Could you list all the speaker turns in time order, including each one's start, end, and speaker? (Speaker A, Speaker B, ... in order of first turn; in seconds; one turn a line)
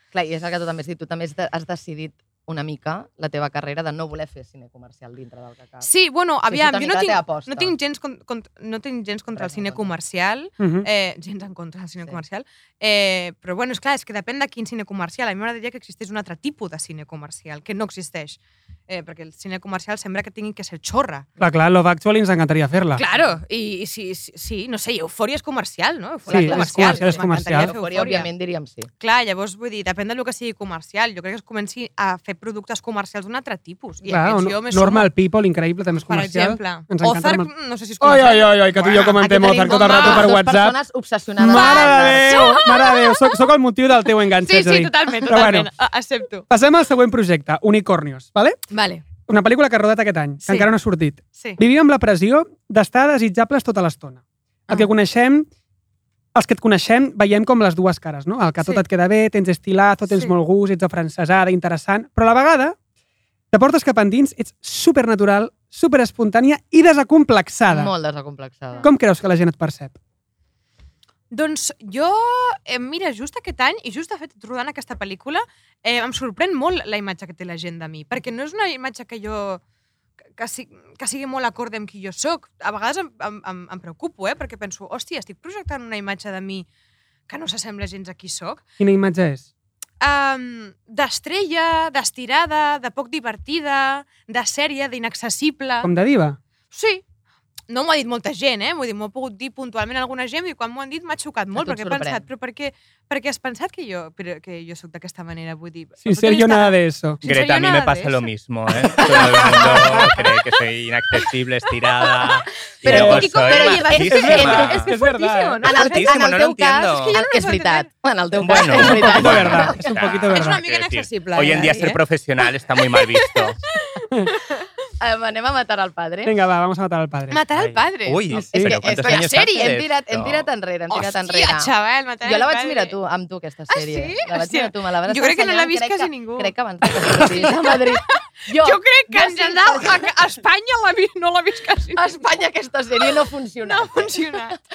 Speaker A: 0.1-5.9
Speaker B: 5.8-21.3
Speaker A: 6.5-7.7
Speaker A: 9.3-9.9
Speaker C: 10.6-10.9
Speaker C: 21.4-23.0
Speaker B: 22.9-28.3
Speaker A: 26.2-28.9
Speaker C: 26.3-27.7
Speaker B: 29.0-35.0
Speaker C: 34.1-37.5
Speaker B: 36.0-40.3
Speaker C: 38.0-40.8
Speaker A: 39.1-42.6
Speaker C: 41.4-45.7
Speaker B: 41.5-43.4
Speaker B: 44.4-46.5
Speaker C: 46.5-48.6
Speaker B: 48.7-49.1
Speaker C: 49.2-55.5
Speaker B: 50.4-50.7
Speaker B: 51.3-51.6
Speaker C: 56.3-62.8
Speaker C: 63.5-67.9
Speaker A: 67.7-68.9
Speaker C: 68.8-70.0
Speaker B: 71.3-79.6
Speaker B: 80.4-86.7
Speaker B: 87.3-88.6
Speaker C: 88.8-89.5
Speaker B: 90.0-95.9
Speaker C: 95.8-96.4
Speaker B: 96.7-97.0
Speaker B: 97.7-108.2
Speaker A: 101.5-102.2
Speaker C: 106.0-107.2
Speaker D: 107.2-114.9
Speaker B: 109.0-109.5
Speaker C: 109.1-110.0
Speaker B: 112.8-116.2
Speaker A: 112.8-114.8
Speaker C: 112.9-113.3
Speaker C: 114.1-115.6
Speaker A: 115.6-119.8
Speaker D: 115.7-117.2
Speaker B: 116.9-117.9
Speaker D: 118.4-123.6
Speaker B: 118.6-118.8
Speaker C: 118.7-120.6
Speaker B: 120.2-122.0
Speaker A: 121.5-121.9
Speaker B: 122.9-124.7
Speaker A: 125.0-126.3
Speaker C: 126.2-127.4
Speaker B: 127.3-128.4
Speaker D: 127.5-130.5
Speaker C: 128.3-128.8
Speaker A: 128.3-131.7
Speaker B: 128.9-129.7
Speaker B: 130.9-132.9
Speaker A: 132.2-140.1
Speaker B: 133.7-142.2
Speaker A: 141.9-144.5
Speaker B: 143.6-144.6